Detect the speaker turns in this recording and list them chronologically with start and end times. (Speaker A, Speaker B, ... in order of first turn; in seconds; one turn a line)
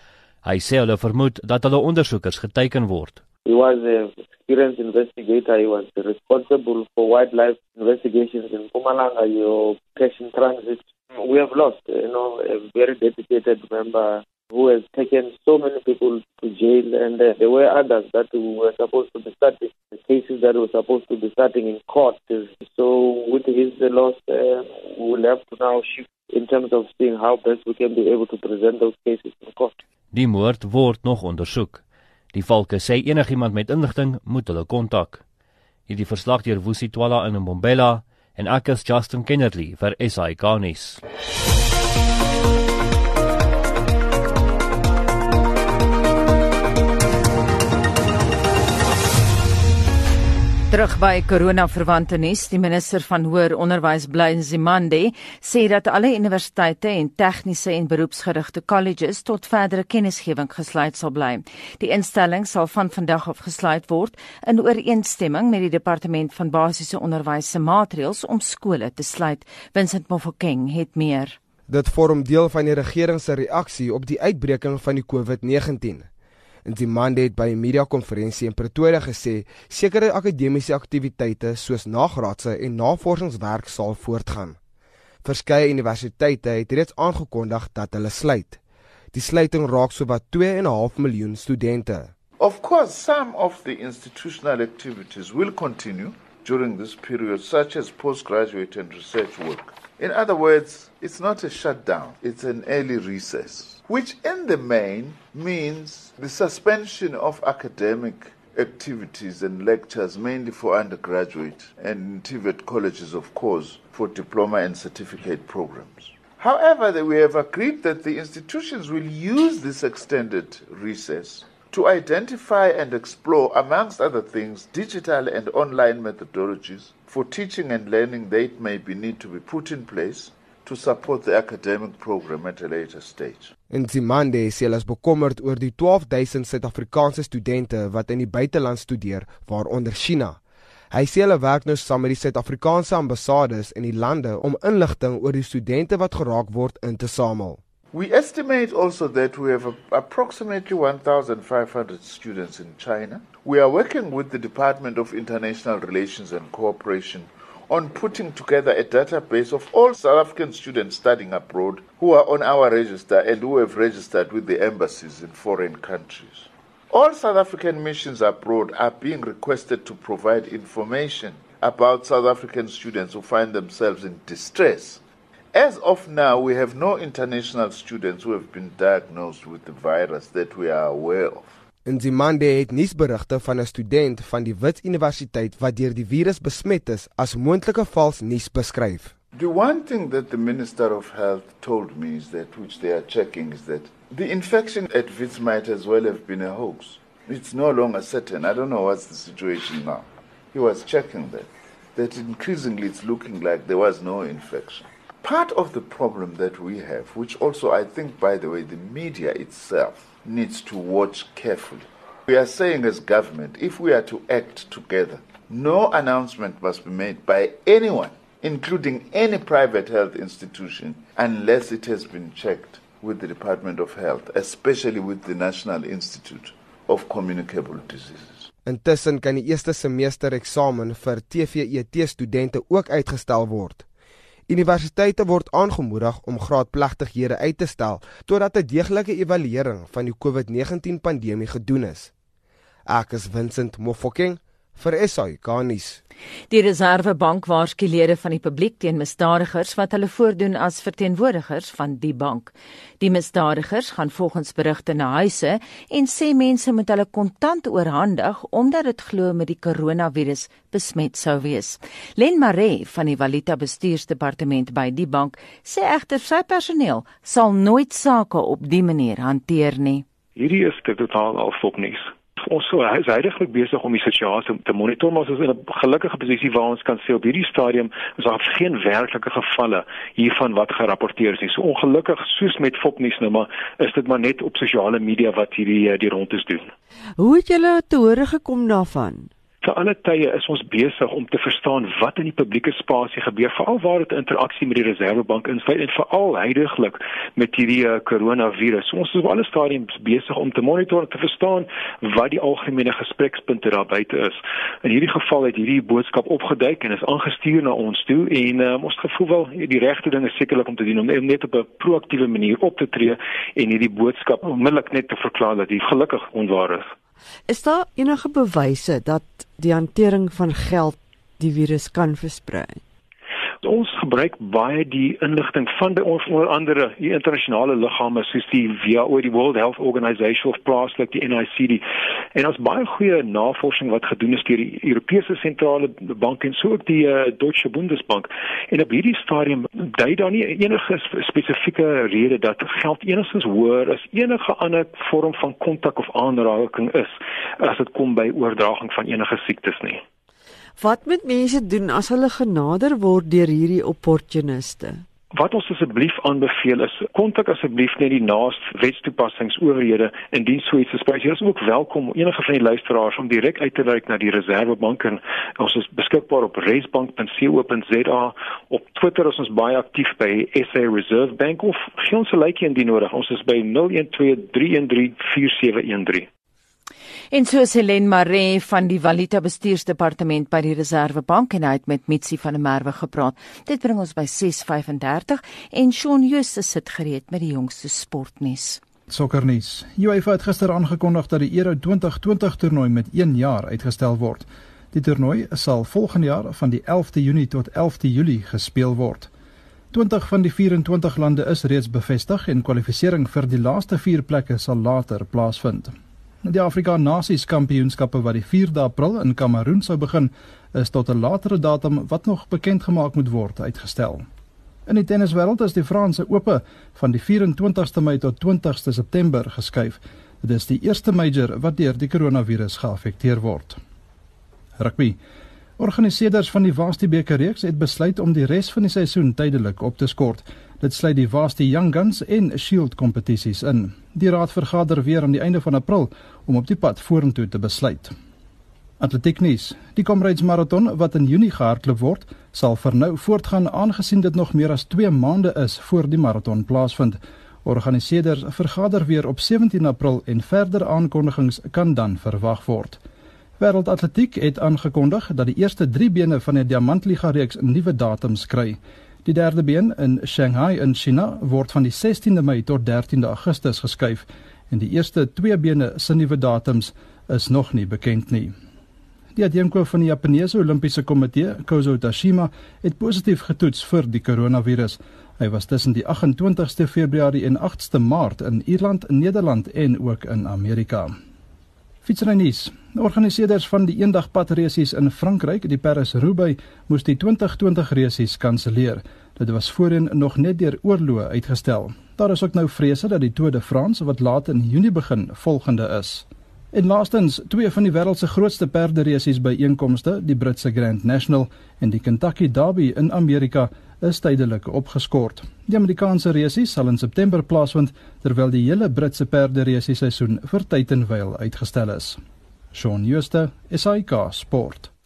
Speaker A: 0.4-3.2
Speaker B: 3.4-29.8
Speaker A: 30.1-31.8
Speaker A: 32.3-35.2
Speaker A: 35.9-41.0
Speaker C: 50.7-71.4
Speaker D: 71.7-76.1
Speaker D: 76.6-84.6
Speaker D: 85.2-88.6
Speaker D: 89.1-92.1
Speaker E: 92.4-133.5
Speaker D: 133.7-140.4
Speaker D: 140.9-147.6
Speaker E: 147.9-175.0
Speaker E: 175.5-181.6
Speaker D: 181.8-189.1
Speaker E: 189.3-228.5
Speaker D: 228.6-233.8
Speaker D: 234.5-242.1
Speaker D: 242.9-246.0
Speaker C: 246.5-270.0
Speaker F: 270.4-286.7
Speaker G: 287.2-289.3
Speaker F: 289.6-316.9
Speaker G: 317.5-322.8
Speaker F: 323.6-350.0
Speaker G: 350.8-355.0
Speaker F: 355.3-376.3
Speaker C: 377.3-388.8
Speaker H: 389.1-399.3
Speaker H: 399.9-414.2
Speaker H: 414.9-423.8
Speaker H: 424.8-425.1
Speaker H: 425.8-438.1
Speaker H: 439.0-453.0
Speaker H: 453.6-468.5
Speaker H: 469.3-481.1
Speaker H: 482.0-512.2
Speaker H: 512.7-514.9